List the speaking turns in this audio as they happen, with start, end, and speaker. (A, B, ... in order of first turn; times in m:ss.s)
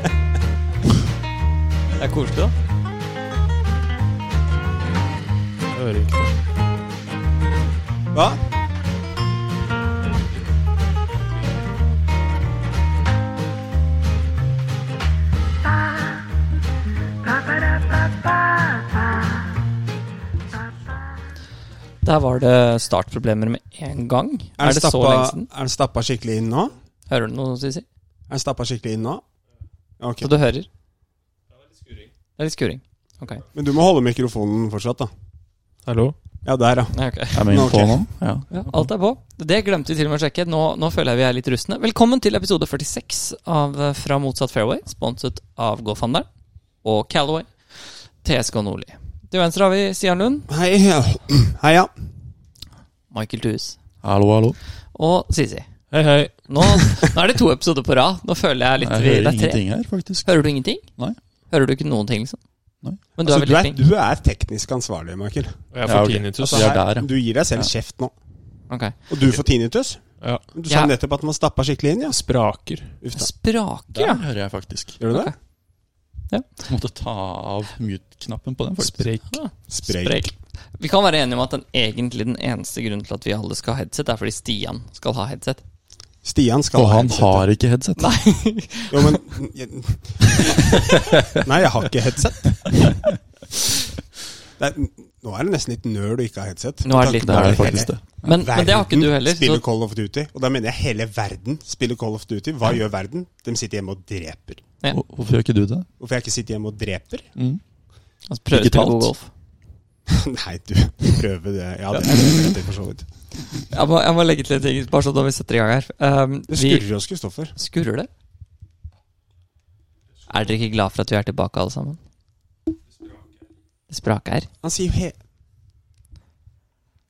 0:02.0-0:02.5 A
0:05.7-0:06.4 B
0:08.1-0:08.4 C
0:22.0-0:25.5 A
0:24.6-0:26.8 C
0:27.1-0:27.9 A
0:28.3-0:29.2 C
0:30.0-0:30.3 C
0:30.2-0:30.7 A
0:32.4-0:33.4 A
0:33.5-0:35.1 C
0:35.9-0:36.2 B
0:36.4-0:38.1 C
0:36.9-0:37.7 A
0:37.3-0:38.9 D
0:38.5-0:46.3 A
0:46.8-0:50.5 A
0:50.5-0:51.9 C
0:53.1-0:53.8 A
0:54.0-0:54.6 D
0:54.9-0:55.7 A
0:55.9-0:56.9 B
0:56.5-0:59.7 A
0:58.8-1:00.3 D
1:00.2-1:00.8 A
1:01.5-1:02.4 A
1:03.2-1:03.8 A
1:03.2-1:05.6 C
1:05.7-1:06.8 B
1:05.8-1:07.7 D
1:06.5-1:08.1 C
1:08.7-1:09.0 A
1:09.1-1:10.0 C
1:10.2-1:10.5 B
1:10.5-1:12.2 C
1:10.7-1:10.9 A
1:12.1-1:13.0 B
1:13.0-1:13.3 C
1:13.1-1:14.2 A
1:13.9-1:15.0 D
1:15.0-1:15.3 C
1:15.1-1:15.3 A
1:16.7-1:19.1 D
1:18.8-1:19.4 B
1:19.3-1:25.6 A
1:19.7-1:20.3 C
1:26.2-1:27.5 C
1:26.7-1:28.1 D
1:28.0-1:29.2 A
1:28.9-1:33.2 C
1:34.6-1:44.6 C
1:36.8-1:39.6 A
1:37.2-1:38.2 D
1:44.9-1:45.9 D
1:46.0-1:47.3 C
1:47.4-1:47.6 D
1:48.3-1:49.3 A
1:48.5-1:49.1 D
1:50.1-1:53.1 C
1:53.7-1:56.9 A
1:56.5-1:57.5 C
1:57.6-1:58.1 A
2:00.3-2:02.0 A
2:03.9-2:04.5 A
2:04.6-2:05.2 C